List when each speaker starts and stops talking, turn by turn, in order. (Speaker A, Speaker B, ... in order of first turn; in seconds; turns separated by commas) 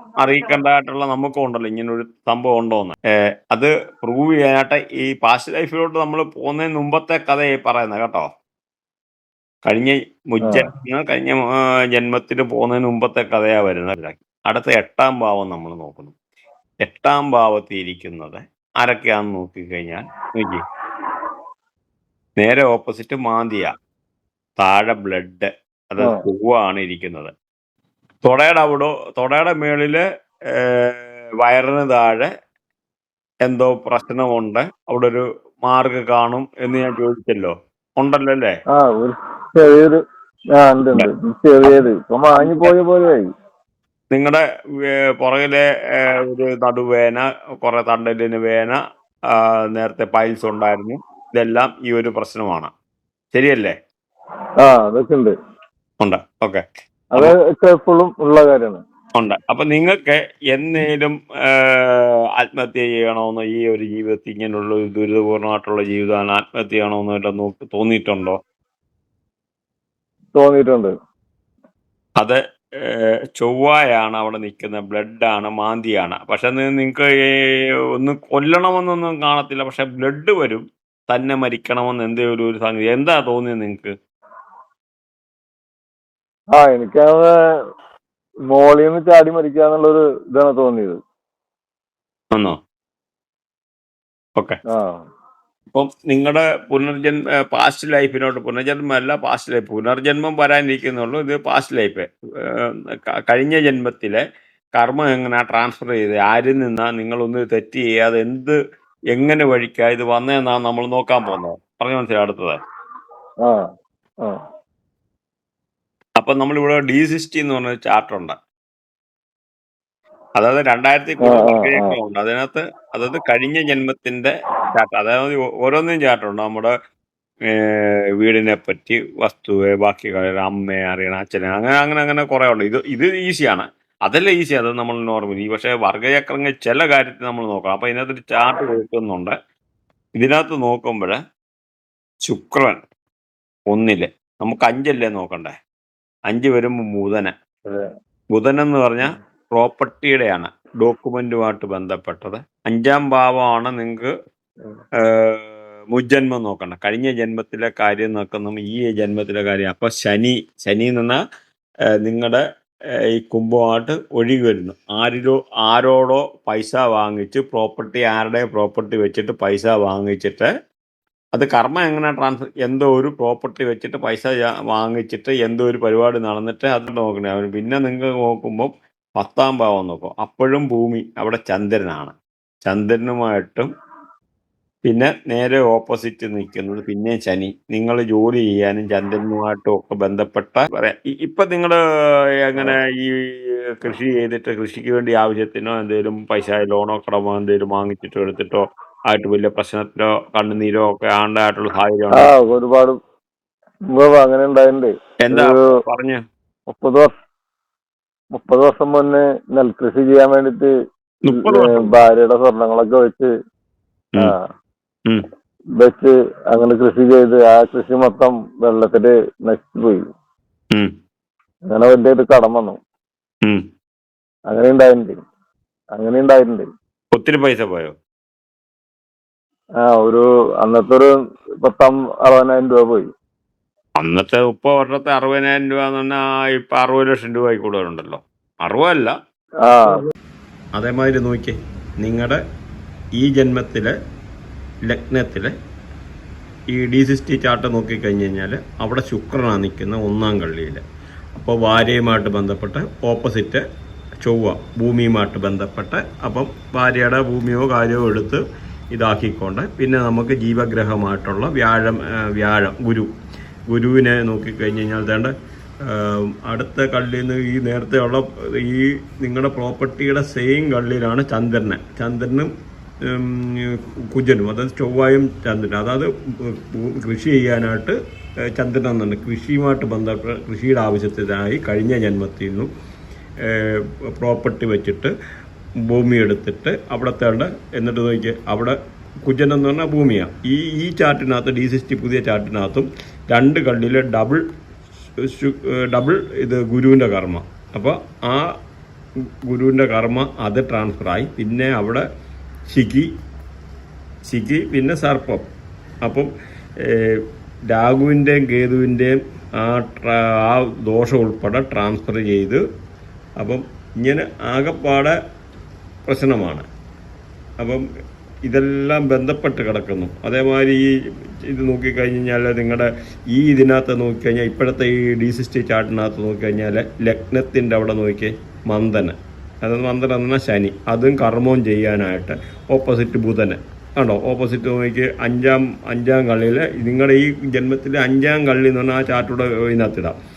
Speaker A: 0.2-3.0, Speaker A: 3.5-8.3, Speaker A: 9.6-16.1, Speaker A: 16.9-20.6, Speaker A: 22.4-23.7, Speaker A: 24.6-27.3, Speaker A: 28.2-32.3, Speaker A: 33.4-38.5, Speaker B: 38.7-40.0, Speaker B: 40.6-43.2, Speaker A: 41.6-42.7, Speaker A: 44.1-48.8, Speaker A: 49.4-52.7, Speaker A: 53.3-53.8, Speaker B: 54.6-55.3, Speaker A: 56.0-56.6, Speaker B: 57.1-58.8, Speaker A: 59.2-68.4, Speaker B: 70.3-70.9, Speaker A: 72.2-83.9, Speaker B: 86.5-87.3, Speaker B: 88.5-91.0, Speaker B: 94.7-95.0, Speaker A: 95.7-104.2, Speaker A: 104.8-108.5, Speaker A: 109.1-112.6, Speaker A: 116.2-118.3, Speaker A: 120.4-126.7, Speaker B: 121.2-121.9, Speaker A: 127.5-139.3, Speaker A: 140.2-141.2, Speaker A: 142.2-142.8, Speaker A: 143.7-145.5, Speaker A: 146.3-147.3, Speaker A: 148.3-154.1, Speaker A: 155.1-161.2, Speaker A: 162.0-162.4, Speaker A: 163.1-170.5, Speaker A: 171.3-182.1, Speaker A: 182.7-183.7, Speaker A: 184.8-191.8, Speaker A: 192.4-202.3, Speaker B: 202.1-202.9, Speaker B: 203.9-205.6, Speaker A: 205.2-206.2, Speaker B: 206.7-207.1, Speaker B: 208.4-210.7, Speaker A: 211.2-212.0, Speaker B: 211.3-213.3, Speaker B: 215.8-220.0, Speaker B: 221.7-222.8, Speaker B: 224.5-225.2, Speaker B: 225.9-226.6, Speaker A: 227.1-227.9, Speaker B: 229.8-231.1, Speaker B: 231.6-233.1, Speaker A: 234.0-239.1, Speaker B: 239.7-240.0, Speaker A: 240.8-242.4, Speaker A: 243.2-243.9, Speaker A: 244.9-245.5, Speaker A: 246.7-250.8, Speaker A: 251.3-253.6, Speaker A: 254.2-263.1, Speaker A: 263.7-265.3, Speaker A: 265.9-272.5, Speaker A: 273.1-277.9, Speaker A: 278.5-282.7, Speaker A: 283.4-285.1, Speaker A: 285.9-294.4, Speaker A: 295.2-298.5, Speaker A: 299.5-302.0, Speaker A: 302.7-303.1, Speaker A: 304.3-305.4, Speaker A: 306.9-312.6, Speaker A: 313.4-315.1, Speaker A: 316.1-316.6, Speaker A: 318.4-320.9, Speaker A: 321.4-340.1